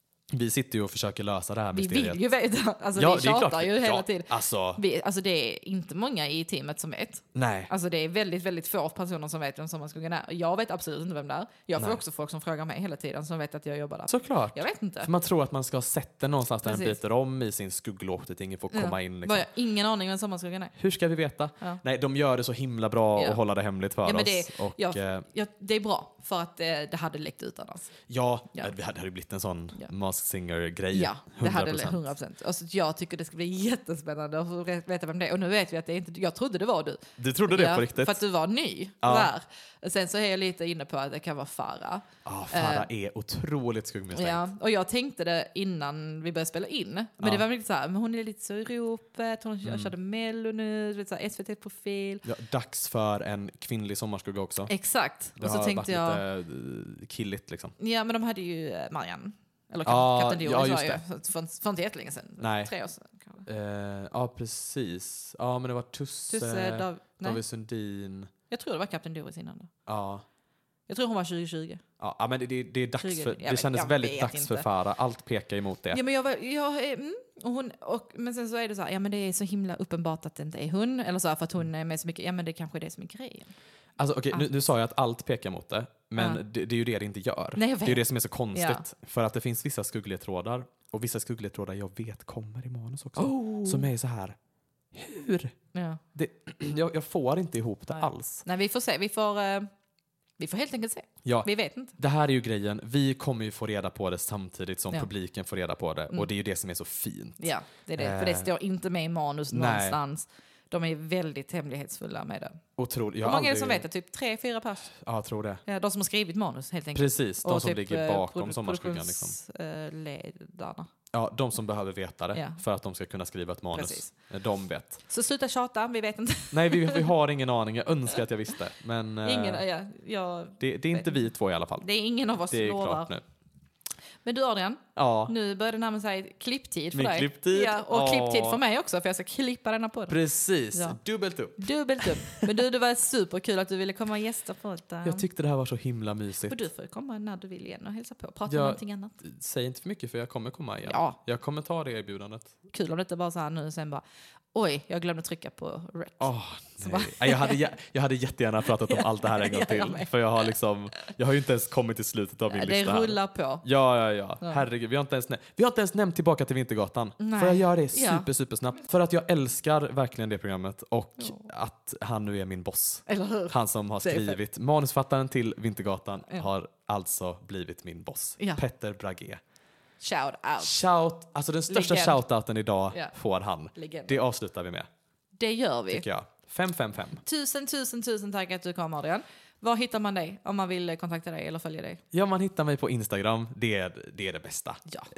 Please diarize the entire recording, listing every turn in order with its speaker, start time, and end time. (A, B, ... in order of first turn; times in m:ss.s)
0:00.3-0:02.2 A
0:01.7-0:15.1 B
0:02.9-0:04.8 A
0:07.3-0:07.7 A
0:11.8-0:12.0 A
0:14.1-0:19.5 A
0:16.6-0:17.0 B
0:18.7-0:20.7 B
0:20.8-0:25.2 A
0:23.2-0:23.4 B
0:24.0-0:27.9 B
0:28.1-0:32.1 A
0:30.9-0:42.9 B
0:37.2-0:38.2 A
0:39.0-0:39.3 A
0:42.2-0:44.5 A
0:44.1-0:52.2 B
0:47.2-0:47.4 A
0:49.6-0:49.9 A
0:52.2-0:54.7 A
0:54.7-0:56.2 B
0:55.4-0:57.8 A
0:57.8-1:03.4 B
0:59.8-1:01.0 A
1:02.4-1:02.7 A
1:03.4-1:08.3 A
1:06.3-1:07.4 B
1:08.5-1:09.7 B
1:09.8-1:10.2 A
1:10.9-1:11.8 B
1:12.0-1:16.0 A
1:13.0-1:14.6 B
1:15.9-1:23.5 B
1:24.0-1:34.4 A
1:26.2-1:26.4 B
1:27.5-1:28.8 B
1:33.2-1:33.9 B
1:34.9-1:35.5 A
1:35.7-1:36.0 B
1:36.1-1:38.4 A
1:37.9-1:39.7 B
1:40.4-1:41.9 B
1:41.2-1:48.5 A
1:47.4-1:52.6 B
1:49.5-1:50.0 A
1:52.8-1:53.8 A
1:53.2-1:54.9 B
1:54.9-1:55.6 A
1:55.6-2:00.9 B
1:56.9-1:59.4 A
2:01.1-2:05.0 A
2:02.3-2:02.6 B
2:03.7-2:04.1 B
2:05.1-2:07.1 B
2:06.5-2:09.6 A
2:09.2-2:11.1 B
2:10.6-2:11.9 A
2:11.8-2:13.1 B
2:12.5-2:13.2 A
2:14.2-2:20.2 B
2:15.0-2:15.3 A
2:16.9-2:18.6 A
2:20.1-2:22.6 A
2:20.7-2:21.0 B
2:21.6-2:25.2 B
2:25.0-2:26.6 A
2:26.4-2:29.2 B
2:28.5-2:32.5 A
2:30.8-2:31.2 B
2:32.7-2:37.6 B
2:36.2-2:59.4 A
2:38.8-2:40.2 B
2:42.5-2:43.6 B
2:47.2-2:48.3 B
2:51.2-2:51.4 B
2:53.1-2:54.4 B
2:58.4-2:58.6 B
3:00.0-3:00.8 B
3:00.6-3:04.9 A
3:01.7-3:02.2 B
3:03.7-3:04.2 B
3:05.4-3:06.0 B
3:05.9-3:07.2 A
3:07.2-3:12.0 B
3:12.1-3:14.8 A